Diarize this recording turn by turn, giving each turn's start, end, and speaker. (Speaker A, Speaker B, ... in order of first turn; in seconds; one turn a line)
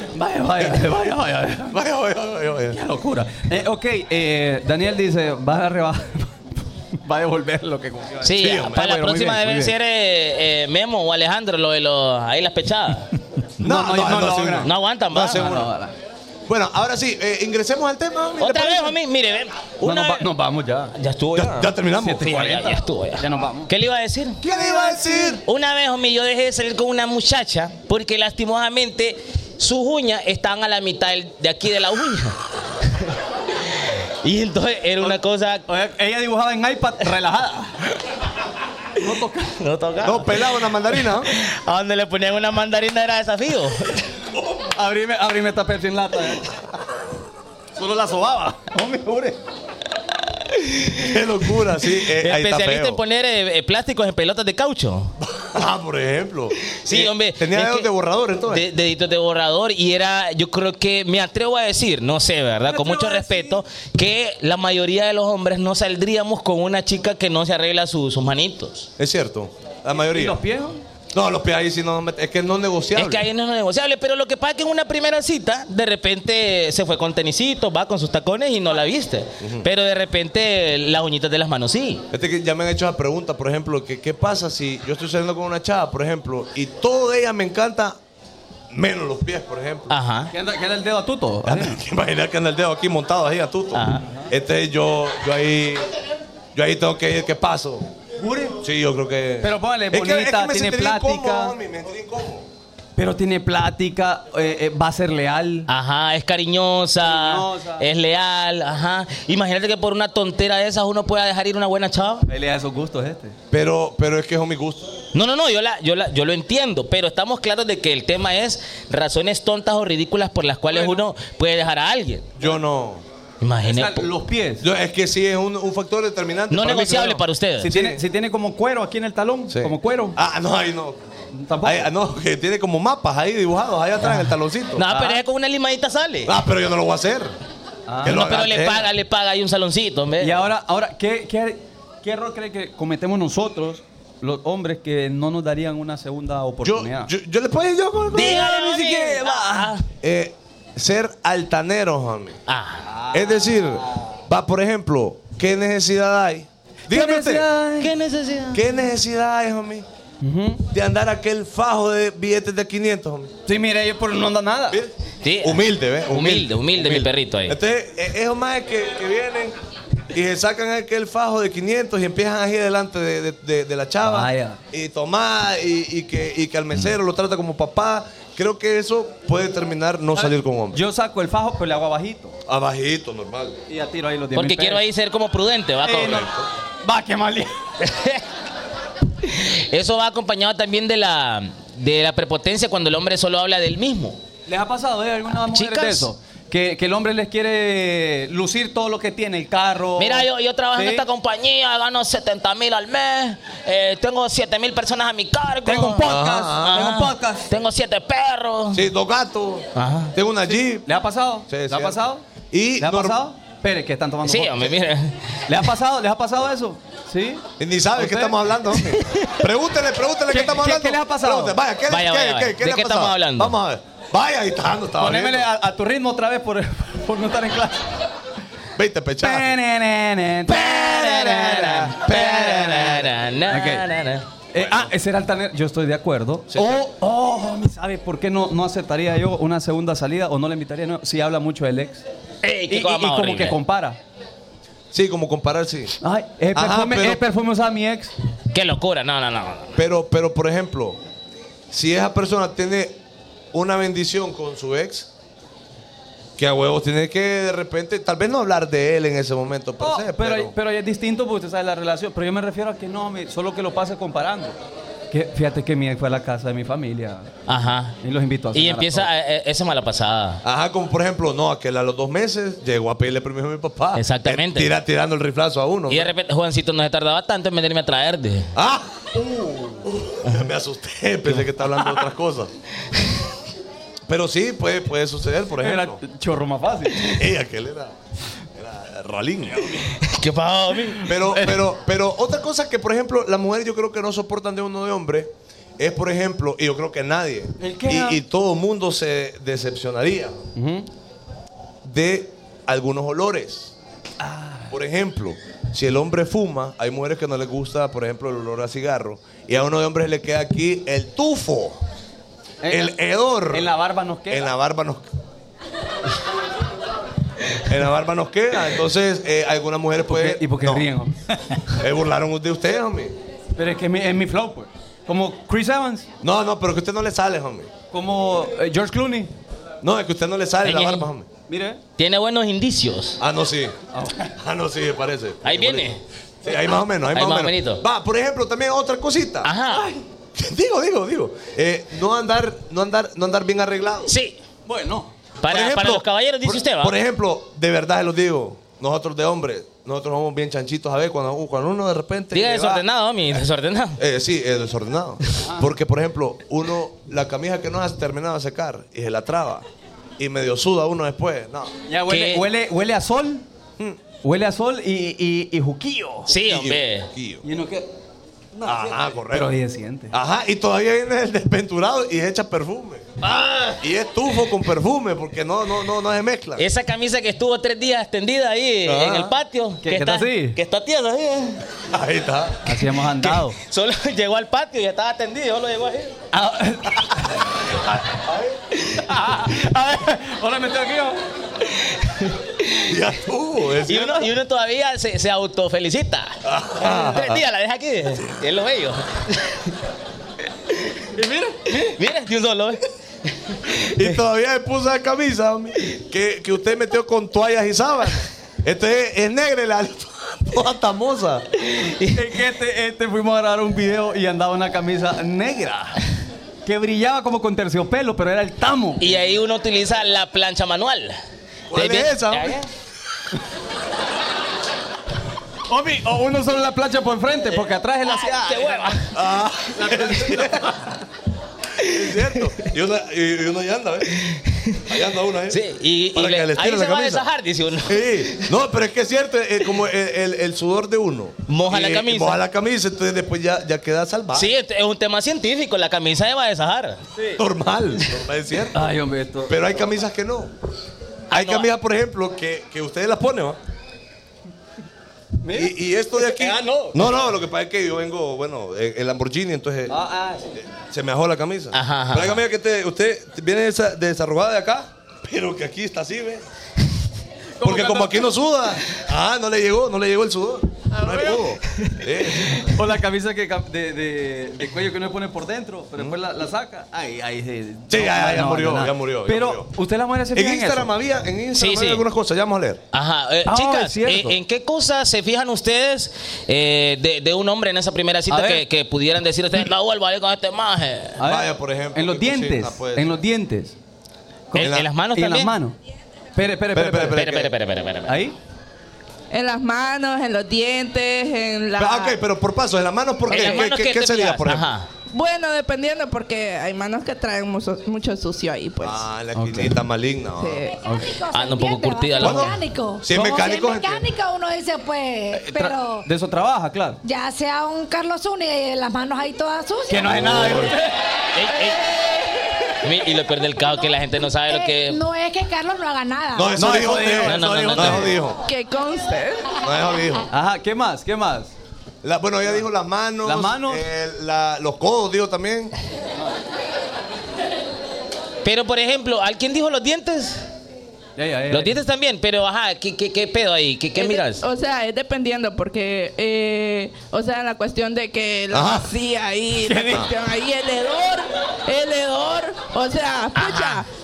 Speaker A: 0.1-1.8
Speaker B: 1.7-2.8
Speaker A: 2.7-9.7
Speaker C: 8.2-13.1
Speaker B: 8.3-8.9
Speaker A: 13.6-14.7
Speaker B: 13.6-15.7
Speaker C: 14.6-15.5
Speaker A: 15.3-15.9
Speaker B: 16.5-19.0
Speaker C: 18.4-20.3
Speaker A: 19.8-20.9
Speaker C: 20.9-24.4
Speaker B: 21.3-22.3
Speaker A: 21.9-23.7
Speaker B: 24.4-25.4
Speaker C: 25.4-33.1
Speaker C: 33.7-35.6
Speaker A: 35.7-37.8
Speaker A: 39.0-39.5
Speaker C: 39.6-40.5
Speaker B: 40.0-41.3
Speaker C: 41.2-44.0
Speaker A: 44.6-46.5
Speaker A: 47.8-49.4
Speaker C: 50.4-51.1
Speaker B: 51.0-53.0
Speaker C: 52.1-55.1
Speaker B: 55.2-58.6
Speaker C: 56.7-57.9
Speaker C: 58.5-68.9
Speaker A: 62.7-63.6
Speaker B: 69.0-70.4
Speaker A: 70.0-70.8
Speaker B: 71.1-73.2
Speaker C: 72.9-82.0
Speaker B: 79.4-79.7
Speaker B: 82.1-88.0
Speaker B: 88.7-89.9
Speaker C: 89.9-90.3
Speaker A: 90.3-91.8
Speaker B: 91.4-95.9
Speaker C: 93.7-94.0
Speaker B: 96.5-97.9
Speaker A: 98.2-98.6
Speaker B: 98.6-102.5
Speaker A: 99.4-101.5
Speaker A: 103.0-105.7
Speaker C: 105.7-112.2
Speaker A: 107.0-107.8
Speaker A: 112.3-113.3
Speaker B: 113.5-114.9
Speaker C: 115.1-122.3
Speaker A: 120.7-121.0
Speaker B: 122.4-123.0
Speaker C: 123.4-124.1
Speaker A: 123.6-124.6
Speaker B: 124.6-128.0
Speaker C: 126.5-127.7
Speaker A: 127.6-130.2
Speaker B: 129.5-131.1
Speaker A: 131.3-131.9
Speaker B: 131.6-134.8
Speaker C: 134.8-136.3
Speaker A: 134.9-135.2
Speaker B: 136.2-137.3
Speaker A: 137.9-138.2
Speaker B: 138.0-138.9
Speaker C: 138.1-140.4
Speaker A: 140.2-147.1
Speaker B: 146.6-148.5
Speaker C: 148.1-149.8
Speaker A: 148.2-149.8
Speaker B: 150.0-152.4
Speaker C: 152.5-152.9
Speaker A: 153.0-153.3
Speaker B: 153.1-157.5
Speaker A: 156.9-157.9
Speaker C: 157.8-158.6
Speaker B: 158.5-159.8
Speaker A: 160.2-160.6
Speaker B: 160.7-163.3
Speaker A: 163.4-164.8
Speaker B: 164.7-169.5
Speaker C: 165.2-167.6
Speaker B: 170.1-180.8
Speaker A: 174.0-174.6
Speaker A: 180.1-182.4
Speaker B: 182.5-183.6
Speaker A: 183.7-184.8
Speaker C: 184.3-186.2
Speaker A: 185.8-186.3
Speaker B: 186.0-186.5
Speaker A: 186.8-187.6
Speaker C: 187.8-188.2
Speaker C: 189.2-194.2
Speaker A: 194.5-201.0
Speaker C: 195.5-196.1
Speaker C: 200.0-208.8
Speaker A: 205.7-207.5
Speaker B: 206.0-206.9
Speaker B: 208.7-210.8
Speaker C: 209.7-210.1
Speaker A: 210.8-212.2
Speaker B: 211.5-213.2
Speaker A: 212.8-214.7
Speaker C: 214.2-215.4
Speaker A: 215.5-219.0
Speaker B: 217.6-225.5
Speaker A: 220.3-221.6
Speaker C: 221.9-223.5
Speaker A: 225.0-227.9
Speaker B: 228.8-229.5
Speaker A: 229.2-230.7
Speaker B: 230.5-233.1
Speaker C: 230.6-234.2
Speaker A: 231.3-231.9
Speaker A: 233.5-233.8
Speaker A: 234.5-242.0
Speaker B: 234.5-234.9
Speaker B: 236.5-236.9
Speaker C: 242.4-243.6
Speaker A: 242.7-244.0
Speaker B: 244.9-245.9
Speaker A: 246.0-248.1
Speaker B: 246.5-247.2
Speaker C: 248.5-249.8
Speaker B: 249.8-251.0
Speaker B: 251.7-252.9
Speaker B: 253.5-255.1
Speaker B: 256.4-260.5
Speaker A: 259.8-264.6
Speaker A: 265.1-267.3
Speaker C: 267.5-267.9
Speaker A: 268.0-269.1
Speaker C: 268.5-270.4
Speaker B: 270.4-276.1
Speaker C: 273.9-274.7
Speaker C: 275.9-278.5
Speaker B: 278.5-282.5
Speaker B: 284.1-286.0
Speaker A: 285.6-287.2
Speaker B: 287.1-287.9
Speaker B: 288.6-289.8
Speaker C: 289.9-291.1
Speaker B: 291.0-300.4
Speaker A: 291.1-291.7
Speaker A: 297.6-298.2
Speaker A: 300.6-300.9
Speaker B: 301.8-303.7
Speaker A: 304.2-304.7
Speaker B: 304.7-311.8
Speaker A: 312.6-312.9
Speaker B: 312.6-313.7
Speaker A: 313.5-314.5
Speaker B: 314.3-315.0
Speaker B: 317.6-320.9
Speaker A: 320.0-321.2
Speaker B: 321.8-323.1
Speaker A: 323.6-326.1
Speaker B: 326.2-327.7
Speaker A: 327.9-329.3
Speaker B: 329.8-331.3
Speaker C: 330.6-331.1
Speaker A: 331.5-331.8
Speaker C: 332.0-333.2
Speaker B: 333.2-333.8
Speaker A: 333.9-334.3
Speaker B: 334.4-335.9
Speaker C: 335.4-336.0
Speaker B: 336.4-339.5
Speaker C: 337.1-337.8
Speaker C: 339.4-339.9
Speaker A: 339.7-340.0
Speaker B: 340.3-344.1
Speaker C: 344.1-344.4
Speaker A: 344.6-345.1
Speaker C: 345.4-347.0
Speaker B: 345.4-352.8
Speaker C: 352.3-354.0
Speaker B: 354.0-359.6
Speaker A: 355.4-355.7
Speaker B: 360.2-361.7
Speaker A: 361.9-363.4
Speaker C: 362.1-362.4
Speaker A: 364.2-366.3
Speaker C: 366.3-367.1
Speaker B: 366.3-367.4
Speaker A: 367.4-367.9
Speaker A: 368.6-370.1
Speaker B: 368.6-369.5
Speaker B: 370.1-373.1
Speaker A: 373.2-373.8
Speaker B: 373.8-376.6
Speaker C: 376.6-381.6
Speaker B: 378.9-379.3
Speaker A: 379.8-380.6
Speaker B: 381.9-382.7
Speaker A: 382.6-383.6
Speaker C: 383.2-386.1
Speaker A: 386.3-387.3
Speaker B: 388.0-388.5
Speaker A: 389.0-391.2
Speaker C: 391.6-392.9
Speaker B: 392.9-394.3
Speaker C: 393.9-399.7
Speaker B: 396.4-397.4
Speaker C: 400.7-401.1
Speaker A: 401.2-401.5
Speaker C: 401.7-402.8
Speaker C: 403.4-404.1
Speaker B: 403.8-411.4
Speaker C: 411.6-412.1
Speaker A: 412.1-416.0
Speaker A: 416.6-419.1
Speaker C: 419.0-421.2
Speaker B: 421.7-422.6
Speaker C: 421.7-422.7
Speaker A: 425.7-429.0
Speaker C: 428.1-429.1
Speaker B: 429.1-430.9
Speaker A: 429.8-430.7
Speaker C: 431.8-432.3
Speaker B: 431.8-434.2
Speaker C: 434.2-434.8
Speaker B: 434.9-437.2
Speaker C: 435.5-438.5
Speaker B: 437.9-444.5
Speaker C: 441.5-442.4
Speaker C: 444.3-447.0
Speaker B: 447.4-448.8
Speaker A: 448.7-449.6
Speaker B: 449.4-450.5
Speaker C: 451.3-451.7
Speaker B: 451.3-453.6
Speaker A: 455.4-457.0
Speaker B: 455.5-459.9
Speaker A: 459.9-460.5
Speaker B: 460.6-466.4
Speaker C: 461.7-462.4
Speaker A: 467.6-468.3
Speaker B: 467.6-472.8
Speaker A: 471.0-471.4
Speaker A: 472.6-480.9
Speaker B: 477.9-479.7
Speaker B: 480.3-482.8
Speaker C: 481.6-482.0
Speaker C: 482.9-491.2
Speaker A: 483.4-484.4
Speaker A: 488.3-488.6
Speaker A: 491.2-493.7
Speaker B: 491.2-493.2
Speaker A: 494.5-495.7
Speaker C: 494.5-495.5
Speaker B: 494.6-494.9
Speaker A: 496.4-497.2
Speaker B: 496.7-497.5
Speaker C: 497.1-498.2
Speaker A: 498.1-498.3
Speaker D: 499.3-502.2
Speaker B: 501.8-504.7
Speaker C: 503.3-504.9
Speaker D: 505.1-509.1
Speaker B: 508.8-510.6
Speaker A: 509.3-509.8
Speaker D: 510.4-510.8
Speaker A: 510.8-511.1
Speaker E: 511.0-516.1
Speaker C: 511.3-512.6
Speaker B: 512.2-514.1
Speaker A: 515.3-517.0
Speaker E: 517.0-520.2
Speaker A: 519.9-521.0
Speaker B: 520.0-520.8
Speaker C: 521.3-521.8
Speaker C: 522.8-525.0
Speaker E: 524.5-526.7
Speaker B: 526.3-528.4
Speaker A: 526.6-528.1
Speaker C: 527.2-528.2
Speaker D: 528.4-529.5
Speaker B: 529.6-530.3
Speaker A: 530.3-531.5
Speaker B: 532.0-535.7
Speaker A: 533.2-533.8
Speaker C: 538.4-540.4
Speaker A: 541.2-541.8
Speaker C: 541.5-544.4
Speaker D: 544.0-553.9
Speaker B: 548.5-548.9
Speaker A: 549.6-550.1
Speaker C: 553.3-553.8